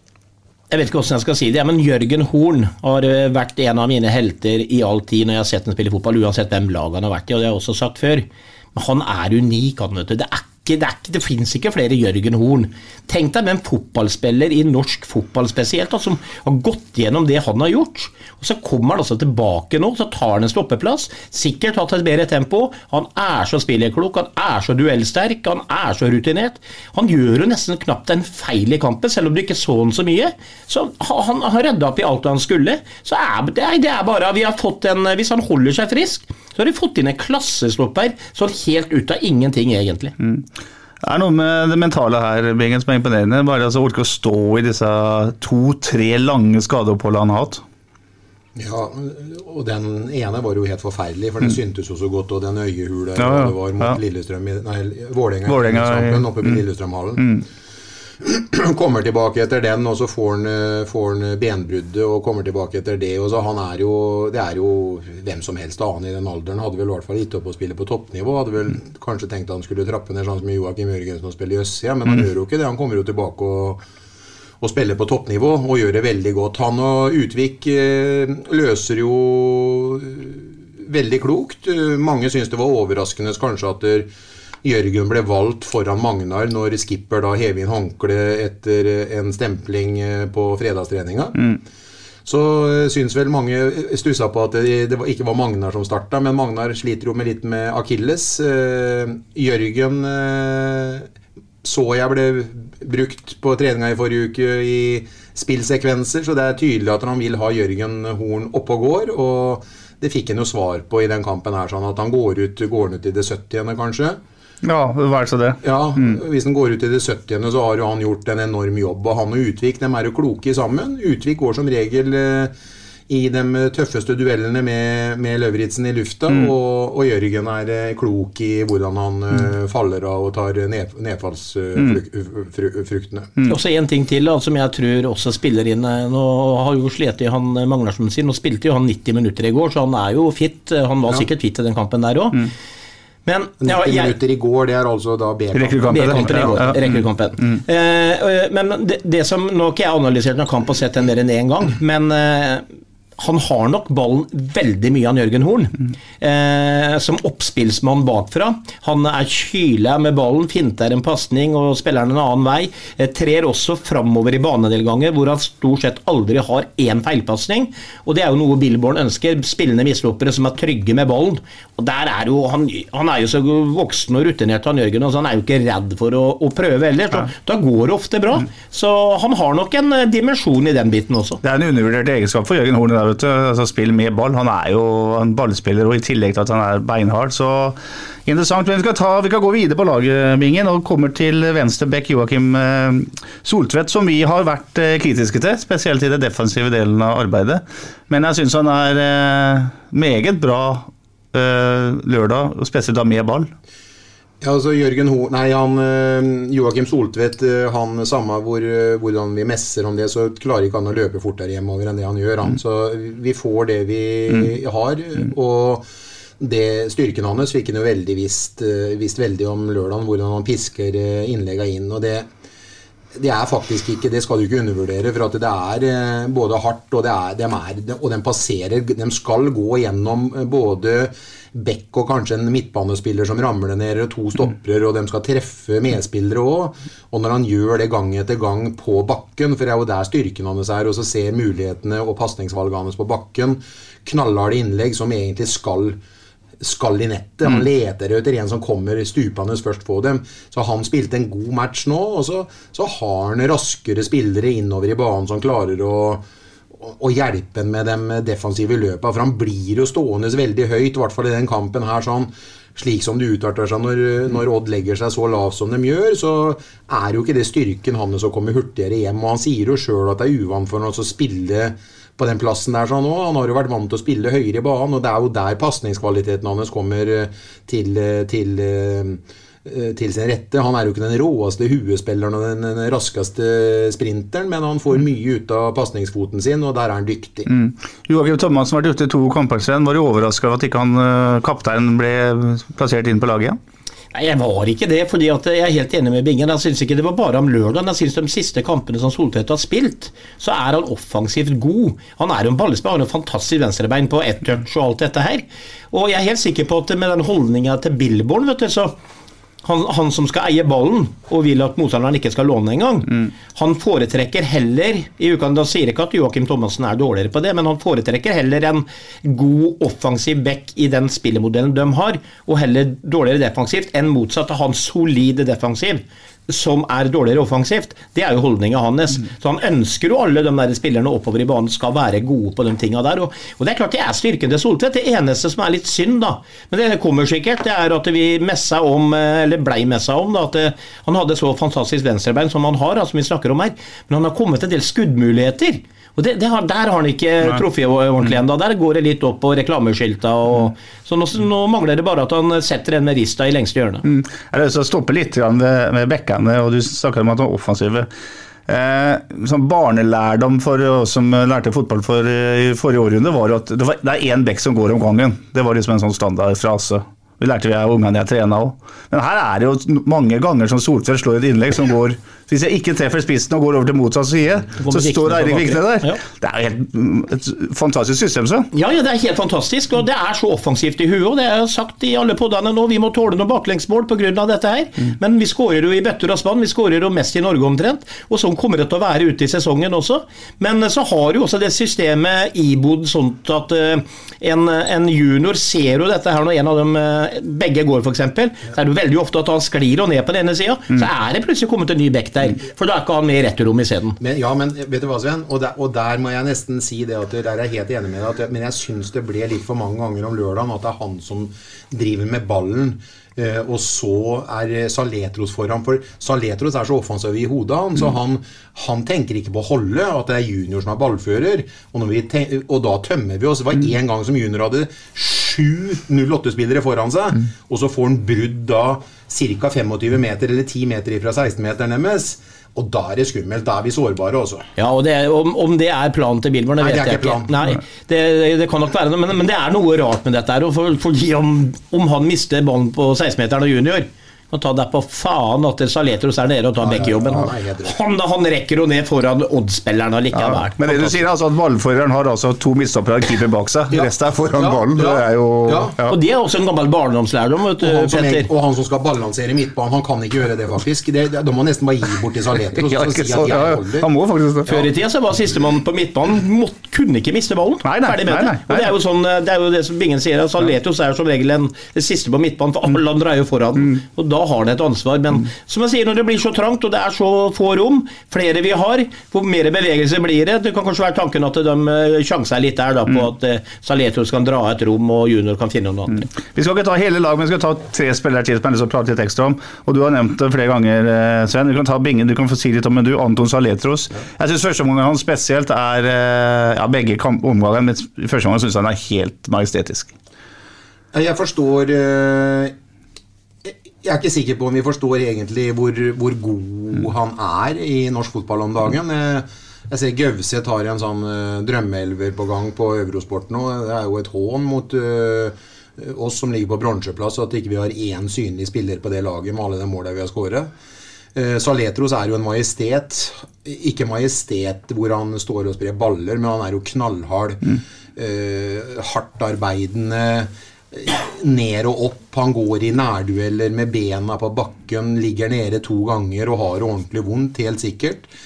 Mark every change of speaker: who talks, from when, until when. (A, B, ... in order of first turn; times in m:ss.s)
0:00.7-0:40.1 A
0:40.2-0:40.5 B
0:41.0-0:47.6 B
0:48.6-0:57.2 C
0:53.2-0:54.0 B
0:55.5-0:56.6 B
0:57.2-0:57.4 B
0:58.2-1:13.8 C
1:14.6-1:24.1 C
1:24.6-1:31.4 C
1:32.2-1:41.1 C
1:41.6-1:54.2 C
1:54.6-1:56.2 B
1:55.6-2:02.5 C
2:03.1-2:13.3 C
2:13.5-2:22.5 A
2:23.2-2:24.1 A
2:23.6-2:26.7 C
2:25.5-2:27.6 B
2:25.9-2:32.6 A
2:33.2-3:01.4 A
3:01.4-3:23.5 B
3:24.4-3:35.8 C
3:36.4-3:42.3 C
3:43.2-4:06.0 C
4:06.6-4:16.2 C
4:16.8-4:47.5 C
4:47.5-4:53.6 B
4:54.1-5:08.9 A
5:09.6-5:54.0 A
5:54.0-5:58.1 B
5:58.7-6:18.7 B
6:14.8-6:16.2 A
6:18.7-6:44.2 A
6:44.2-7:14.7 C
7:14.8-7:31.2 A
7:16.8-7:17.5 C
7:26.8-7:27.9 C
7:30.3-7:36.2 B
7:33.9-7:35.9 C
7:36.1-7:38.5 A
7:37.8-7:44.1 C
7:42.8-7:44.9 B
7:44.6-8:06.2 A
7:47.8-7:48.9 B
8:06.4-8:20.1 B
8:21.1-8:22.7 C
8:23.6-8:40.7 C
8:41.3-8:58.3 C